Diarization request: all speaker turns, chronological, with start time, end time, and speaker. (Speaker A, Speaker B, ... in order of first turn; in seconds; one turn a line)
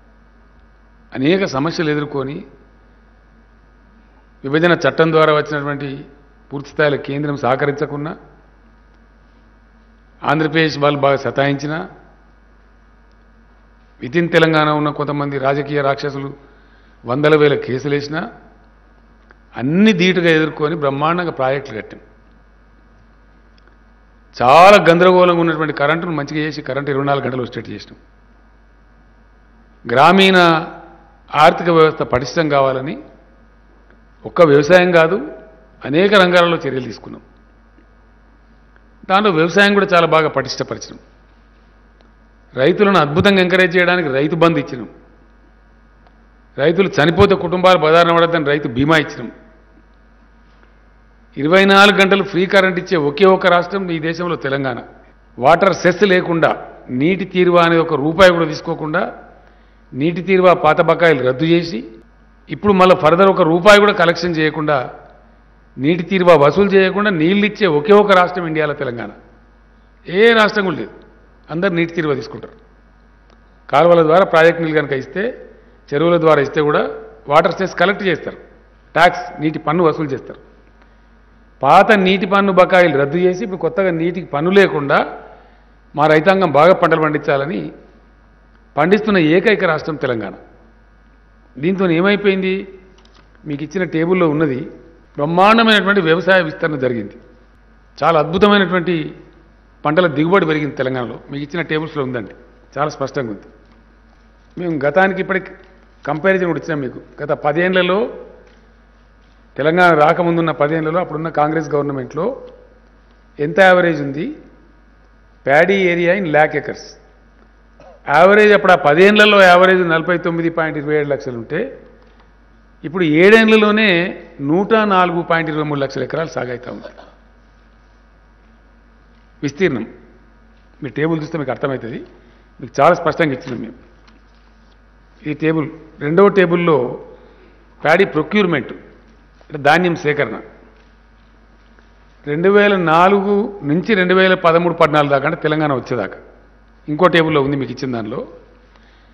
Speaker A: 1.1-2.4
Speaker A: 4.4-6.0
Speaker A: 6.5-8.2
Speaker A: 10.3-11.8
Speaker A: 14.0-16.3
Speaker A: 17.1-18.3
Speaker A: 19.6-22.0
Speaker A: 24.4-28.0
Speaker A: 29.9-30.5
Speaker A: 31.4-33.0
Speaker A: 34.2-35.2
Speaker A: 35.8-37.2
Speaker A: 39.1-41.0
Speaker A: 42.6-44.9
Speaker A: 46.6-49.3
Speaker A: 51.4-54.9
Speaker A: 55.4-59.1
Speaker A: 60.0-61.8
Speaker A: 62.5-64.8
Speaker A: 65.8-69.2
Speaker A: 70.1-70.9
Speaker A: 71.5-72.6
Speaker A: 73.7-75.3
Speaker A: 75.9-78.4
Speaker A: 78.9-80.4
Speaker A: 81.6-85.0
Speaker A: 86.0-87.6
Speaker A: 88.8-90.4
Speaker A: 91.6-92.6
Speaker A: 93.5-94.7
Speaker A: 95.2-97.2
Speaker A: 98.0-99.0
Speaker A: 99.8-103.5
Speaker A: 104.6-108.1
Speaker A: 109.5-112.3
Speaker A: 113.4-114.3
Speaker A: 115.5-117.0
Speaker A: 118.1-121.7
Speaker A: 122.8-126.9
Speaker A: 129.4-129.9
Speaker A: 130.8-132.0
Speaker A: 132.6-133.8
Speaker A: 135.2-136.9
Speaker A: 137.8-138.8
Speaker A: 139.5-140.4
Speaker A: 142.3-146.2
Speaker A: 146.9-148.2